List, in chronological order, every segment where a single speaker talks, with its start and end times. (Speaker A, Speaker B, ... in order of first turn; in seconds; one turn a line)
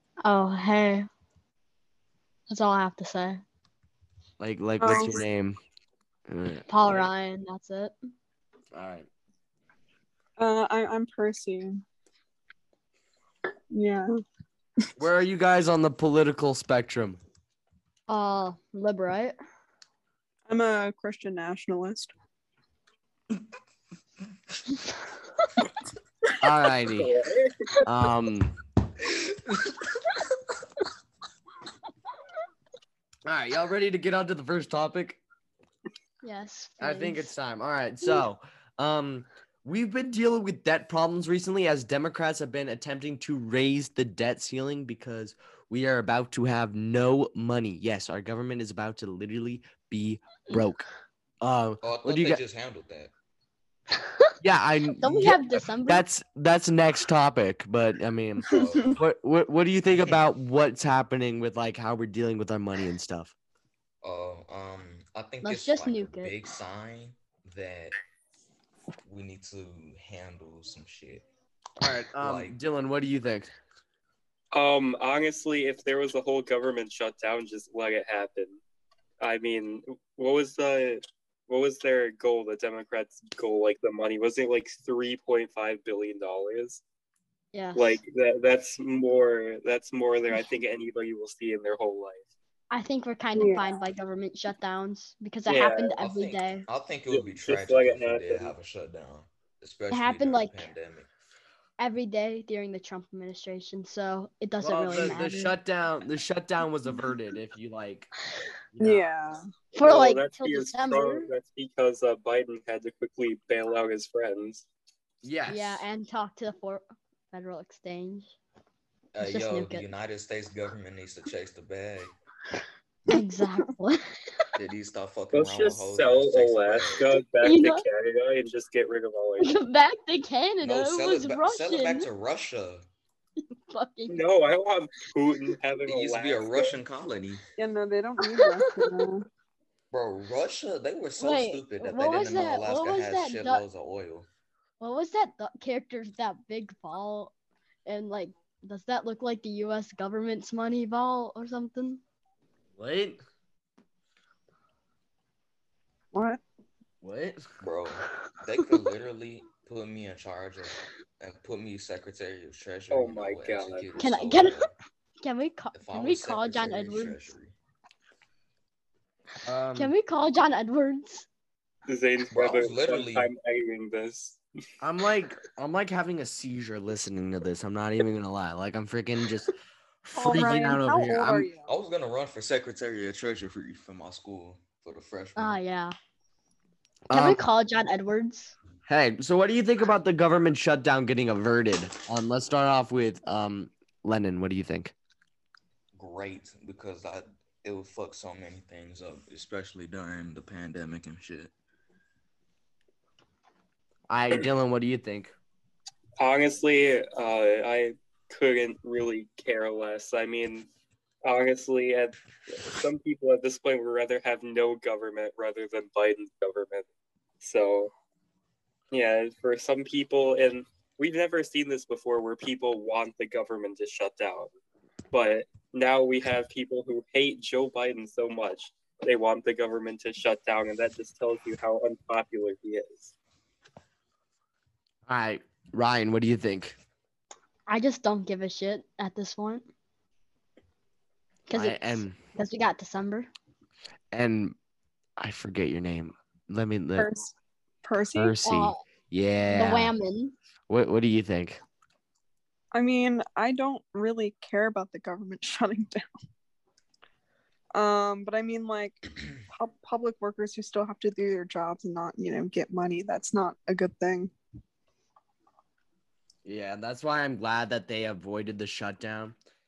Speaker A: 0.2-1.1
Speaker A: 2.5-3.4
Speaker B: 4.4-5.6
Speaker C: 4.8-5.2
Speaker B: 6.3-7.1
Speaker A: 6.7-8.0
Speaker B: 8.7-9.1
Speaker C: 10.4-11.8
Speaker C: 13.7-14.1
Speaker B: 15.0-17.2
Speaker A: 18.1-19.3
Speaker C: 20.5-22.1
Speaker B: 26.4-27.1
Speaker D: 27.0-27.7
Speaker B: 27.8-28.6
Speaker B: 33.2-35.2
Speaker A: 36.2-37.3
Speaker B: 36.8-50.8
Speaker A: 38.0-38.3
Speaker B: 51.4-52.4
Speaker E: 51.8-53.1
Speaker A: 53.9-54.3
Speaker B: 54.4-63.3
Speaker A: 55.0-56.0
Speaker E: 58.5-59.0
Speaker C: 58.5-59.0
Speaker E: 64.0-68.0
Speaker A: 65.4-66.3
Speaker E: 69.0-71.2
Speaker B: 71.8-73.5
Speaker E: 72.1-72.6
Speaker D: 74.5-78.6
Speaker D: 79.2-86.8
Speaker A: 87.5-88.0
Speaker D: 87.7-92.3
Speaker A: 92.7-96.7
Speaker C: 93.3-93.7
Speaker D: 95.5-95.9
Speaker E: 96.0-101.1
Speaker D: 97.1-98.5
Speaker A: 99.9-100.7
Speaker A: 101.8-105.6
Speaker B: 104.6-108.1
Speaker B: 108.7-109.1
Speaker C: 108.8-109.4
Speaker A: 109.7-111.3
Speaker D: 109.8-114.6
Speaker B: 115.2-115.8
Speaker A: 115.5-118.3
Speaker E: 119.1-122.1
Speaker A: 119.2-119.8
Speaker A: 123.1-124.5
Speaker C: 123.1-123.5
Speaker E: 124.5-127.0
Speaker D: 125.3-129.5
Speaker A: 127.4-127.8
Speaker A: 129.4-132.1
Speaker E: 130.6-132.9
Speaker A: 133.7-134.2
Speaker D: 134.1-136.7
Speaker E: 135.8-137.4
Speaker C: 137.6-139.3
Speaker A: 138.2-139.1
Speaker E: 139.9-144.3
Speaker A: 141.2-143.6
Speaker A: 144.8-147.3
Speaker A: 147.8-152.0
Speaker B: 152.8-153.2
Speaker C: 156.1-156.4
Speaker B: 157.0-157.4
Speaker E: 157.6-164.7
Speaker D: 162.9-163.9
Speaker A: 164.0-164.7
Speaker A: 165.2-167.2
Speaker E: 165.7-167.5
Speaker B: 169.4-169.9
Speaker A: 169.7-171.2
Speaker D: 171.9-174.4
Speaker E: 172.3-173.3
Speaker B: 174.8-179.5
Speaker B: 180.0-181.5
Speaker C: 180.1-181.7
Speaker E: 181.7-185.6
Speaker A: 185.4-185.9
Speaker B: 187.1-187.4
Speaker A: 187.1-188.5
Speaker B: 188.8-194.9
Speaker E: 195.9-201.5
Speaker B: 204.1-205.3
Speaker D: 206.2-210.7
Speaker D: 211.2-216.9
Speaker D: 217.4-217.9
Speaker D: 218.9-224.5
Speaker D: 225.1-233.1
Speaker B: 235.1-236.8
Speaker A: 237.7-239.6
Speaker A: 241.5-243.3
Speaker B: 241.5-242.2
Speaker B: 244.1-244.5
Speaker B: 245.2-247.1
Speaker C: 247.0-247.3
Speaker C: 247.8-248.4
Speaker B: 248.1-249.9
Speaker A: 248.4-248.8
Speaker A: 249.4-250.3
Speaker B: 250.7-251.6
Speaker C: 252.7-256.1
Speaker C: 257.7-264.3
Speaker B: 266.4-269.3